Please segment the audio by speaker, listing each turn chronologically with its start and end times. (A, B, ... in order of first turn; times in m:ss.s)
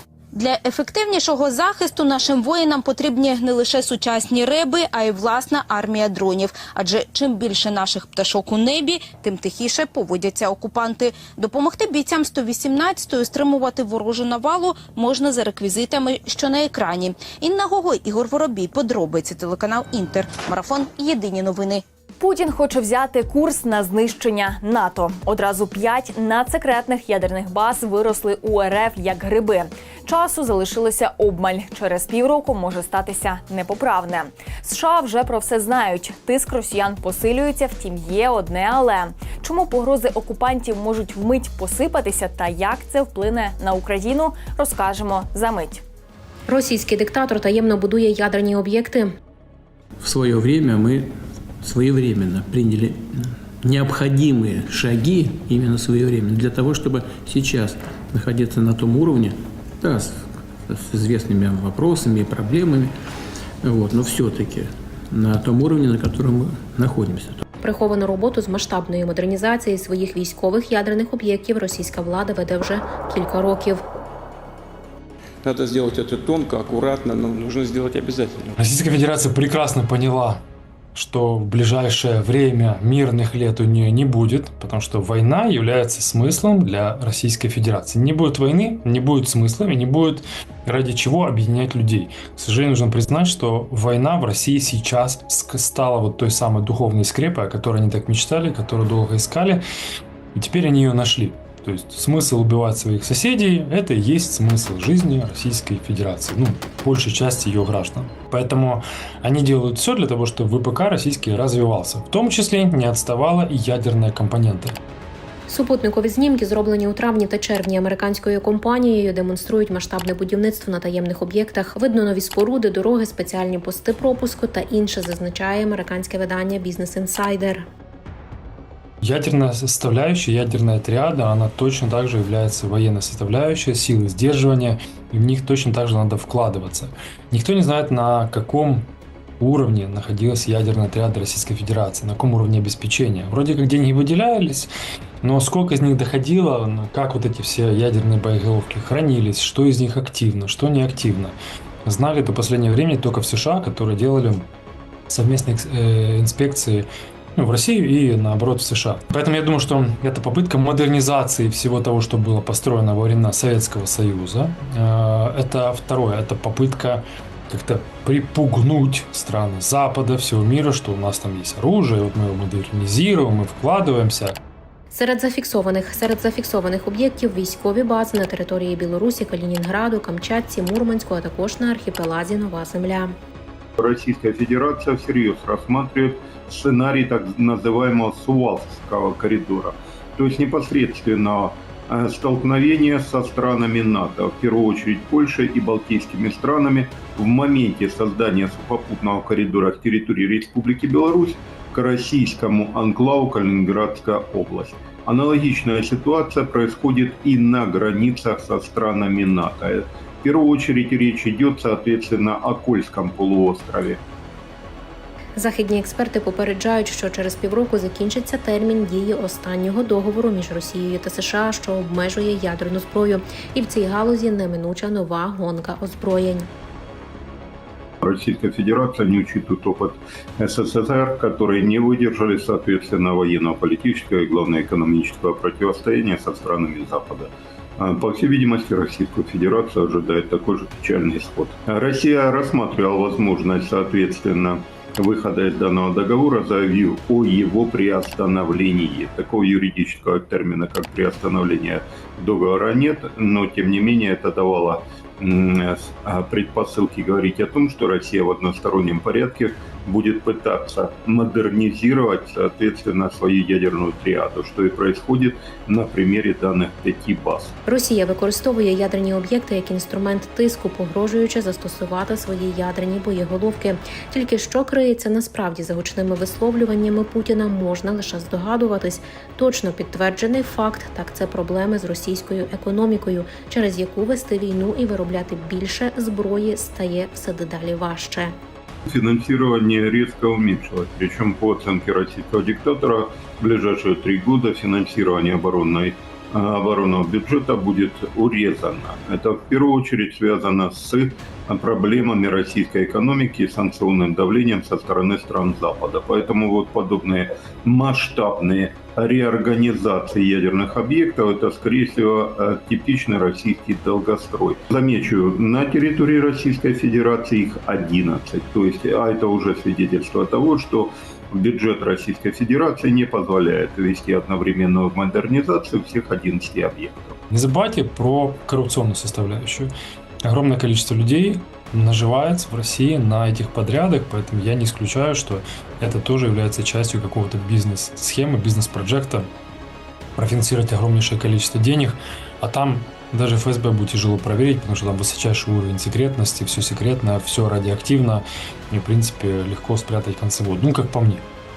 0:00.3-0:21.8 A
0:22.2-0:45.8 B
0:46.5-0:49.1 C
0:50.0-1:02.9 D
1:03.6-1:07.4 D
1:07.6-1:13.8 C
1:15.4-1:18.5 E
1:18.6-1:20.4 F
1:20.9-1:39.6 F
1:40.3-1:54.8 F
1:55.5-2:07.7 C
2:09.0-2:18.9 F
2:19.4-2:24.7 F
2:25.2-2:34.5 F
2:35.1-2:54.4 F
2:54.9-3:03.1 C
3:03.8-3:34.0 G
3:35.4-3:46.5 C
3:48.0-4:27.5 G
4:27.6-4:48.3 C
4:48.8-5:27.2 G
5:27.3-5:29.7 F
5:30.2-5:39.3 F
5:40.2-5:51.2 F